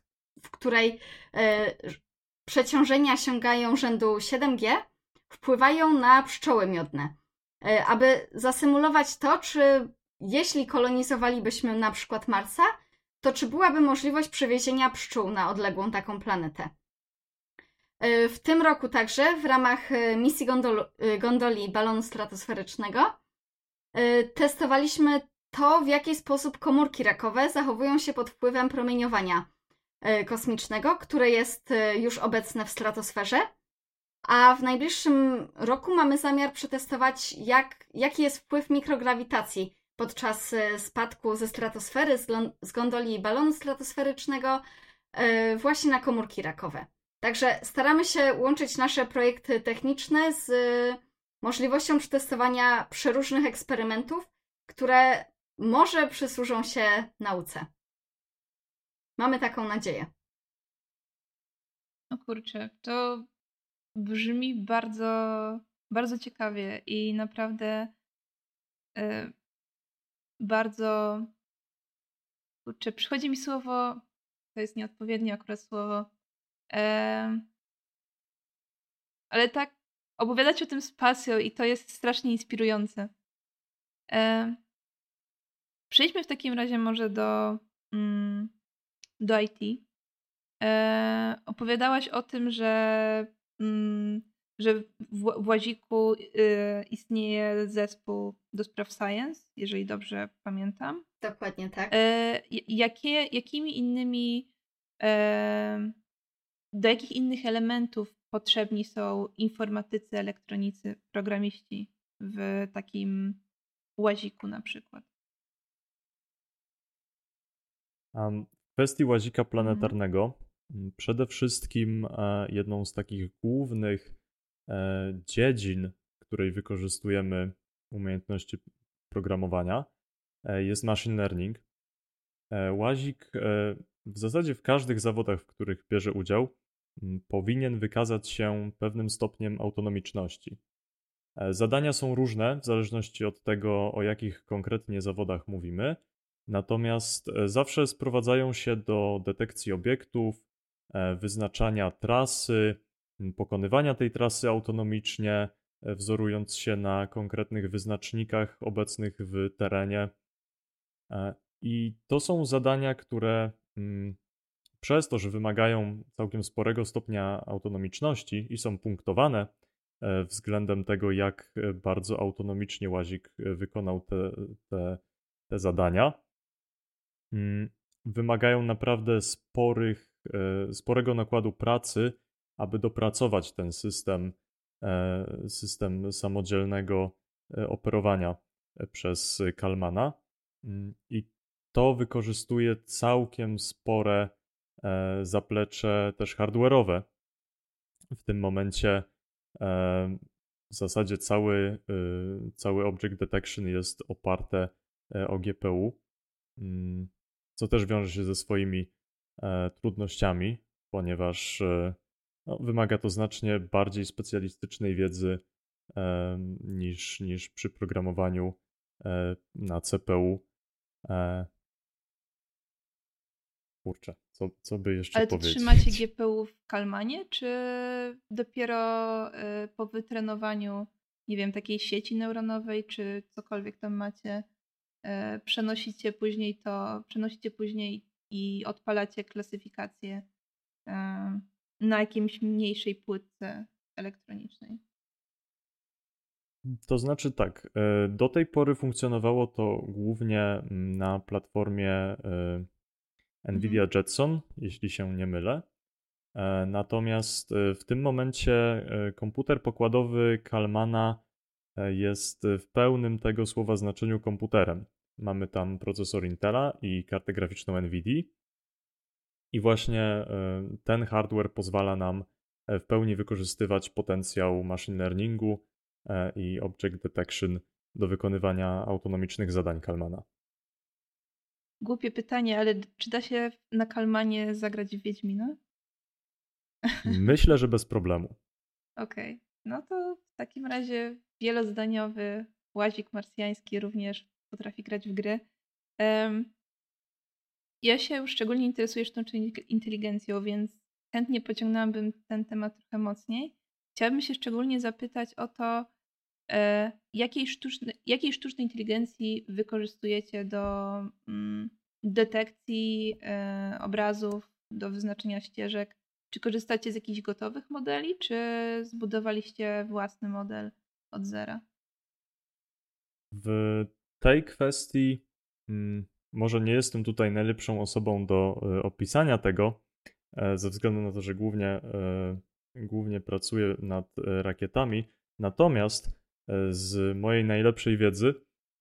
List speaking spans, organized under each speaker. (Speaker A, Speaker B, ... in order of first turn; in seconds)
Speaker A: 0.5-16.7, 18.0-23.2, 23.9-29.5, 30.0-33.5, 34.2-44.6, 45.1-57.7, 59.2-60.1, 101.2-101.9
Speaker B: 62.1-63.3, 64.0-67.9, 69.0-69.3, 70.4-71.3, 72.7-74.0, 74.5-76.1, 76.7-77.5, 79.3-83.1, 84.1-84.6, 85.9-88.5, 89.2-89.8, 90.6-101.0, 101.9-104.5, 105.0-105.9, 106.7-113.4, 114.0-115.1, 119.6-119.9, 225.2-234.5, 235.1-240.3, 240.9-244.8, 253.6-253.8, 281.8-285.6, 289.0-295.4, 296.0-296.5, 297.8-305.9, 306.5-321.6
Speaker C: 118.1-124.2, 124.7-129.9, 130.5-131.6, 132.5-140.6, 141.4-160.1, 161.1-164.2, 164.8-176.2, 177.3-197.1, 198.1-199.1, 199.6-206.0, 206.6-215.4, 215.9-220.4, 221.1-221.5, 223.8-226.0, 246.7-252.7, 253.4-255.7, 256.4-261.2, 261.8-268.3, 269.5-280.2, 287.1-288.4, 323.3-329.8, 330.4-338.4